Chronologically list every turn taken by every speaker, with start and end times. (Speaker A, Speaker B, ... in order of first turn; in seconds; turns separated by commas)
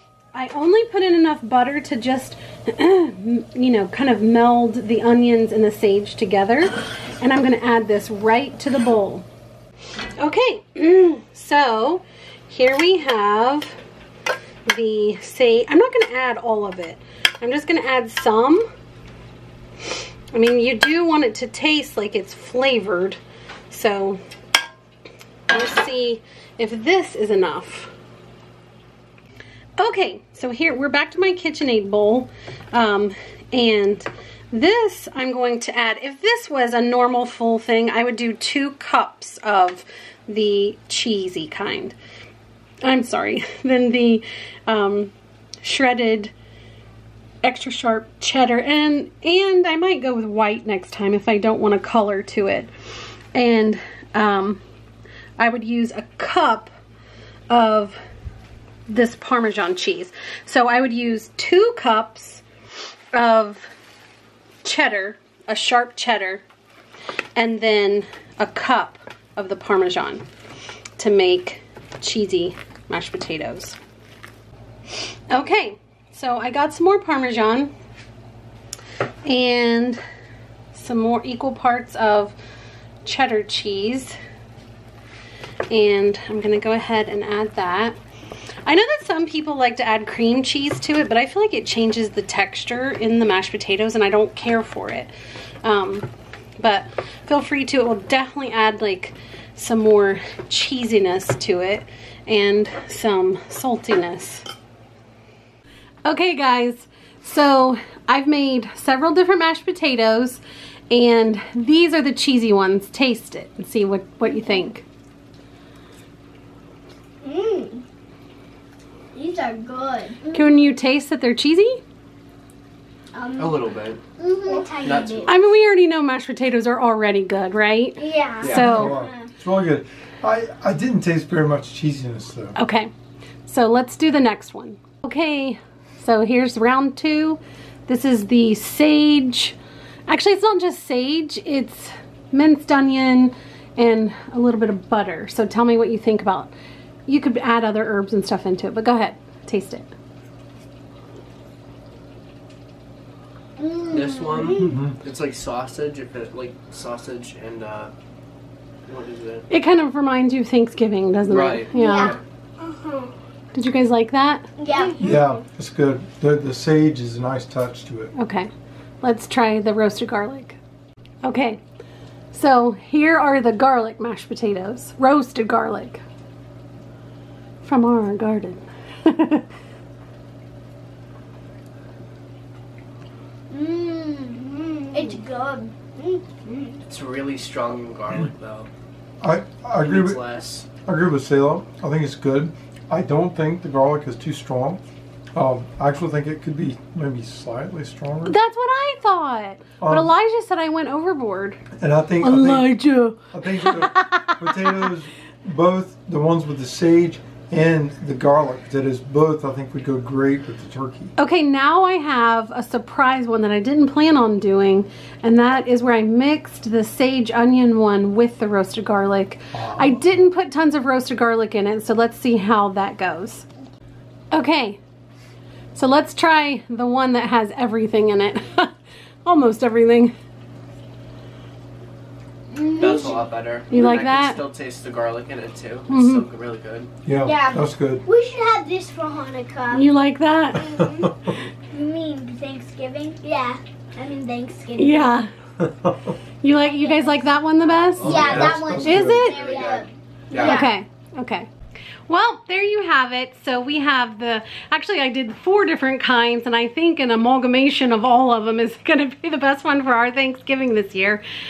Speaker A: 0.3-9.2, Speaker A: 10.2-13.7, Speaker A: 14.7-18.6, Speaker A: 20.3-23.2, Speaker A: 23.7-24.2, Speaker A: 25.5-27.9, Speaker A: 29.8-42.0, Speaker A: 42.8-46.3, Speaker A: 47.4-52.7, Speaker A: 53.3-54.6, Speaker A: 55.4-56.7, Speaker A: 57.5-58.0, Speaker A: 58.9-62.4, Speaker A: 63.1-63.7, Speaker A: 64.6-66.4, Speaker A: 67.3-70.2, Speaker A: 71.0-73.8, Speaker A: 75.3-77.7, Speaker A: 79.2-80.0, Speaker A: 80.7-82.3, Speaker A: 83.0-84.2, Speaker A: 85.7-88.0, Speaker A: 88.6-95.1, Speaker A: 95.6-104.4, Speaker A: 106.0-114.8, Speaker B: 117.2-117.8, Speaker B: 119.1-120.4, Speaker A: 120.3-121.8, Speaker B: 123.1-123.6, Speaker C: 123.4-124.0, Speaker B: 124.2-125.3, Speaker C: 124.8-125.4, Speaker A: 125.2-129.0, Speaker B: 128.0-129.0, Speaker C: 128.4-128.8, Speaker D: 128.5-132.6, Speaker A: 132.6-132.9, Speaker A: 133.4-139.6, Speaker A: 140.1-146.5, Speaker A: 147.1-149.9, Speaker B: 153.6-154.8, Speaker C: 153.8-157.9, Speaker D: 154.5-155.0, Speaker C: 158.9-159.4, Speaker A: 159.5-162.2, Speaker C: 161.2-162.2, Speaker B: 161.7-163.1, Speaker A: 163.5-164.5, Speaker B: 164.6-165.4, Speaker D: 165.0-168.1, Speaker A: 168.1-168.5, Speaker A: 169.0-170.6, Speaker A: 171.2-171.6, Speaker A: 172.3-176.0, Speaker A: 177.6-179.4, Speaker B: 183.5-186.8, Speaker C: 186.8-188.7, Speaker D: 189.2-190.2, Speaker C: 189.8-190.7, Speaker D: 190.8-194.8, Speaker D: 195.3-198.4, Speaker A: 198.2-201.6, Speaker D: 199.8-200.1, Speaker D: 201.8-211.1, Speaker A: 202.2-204.8, Speaker A: 211.2-223.4, Speaker D: 219.5-220.2, Speaker A: 224.3-224.8, Speaker A: 225.7-228.7, Speaker A: 229.2-230.1, Speaker B: 232.5-233.3, Speaker C: 232.7-236.9, Speaker A: 233.7-234.4, Speaker A: 235.9-236.2, Speaker D: 237.0-238.0, Speaker B: 237.2-239.8, Speaker A: 239.7-240.9, Speaker B: 240.6-241.1, Speaker B: 241.7-245.2, Speaker A: 244.8-245.3, Speaker A: 246.4-249.4, Speaker B: 246.6-247.1, Speaker C: 247.9-250.7, Speaker B: 248.0-250.7, Speaker D: 248.0-249.3, Speaker A: 250.3-251.5, Speaker A: 252.1-261.2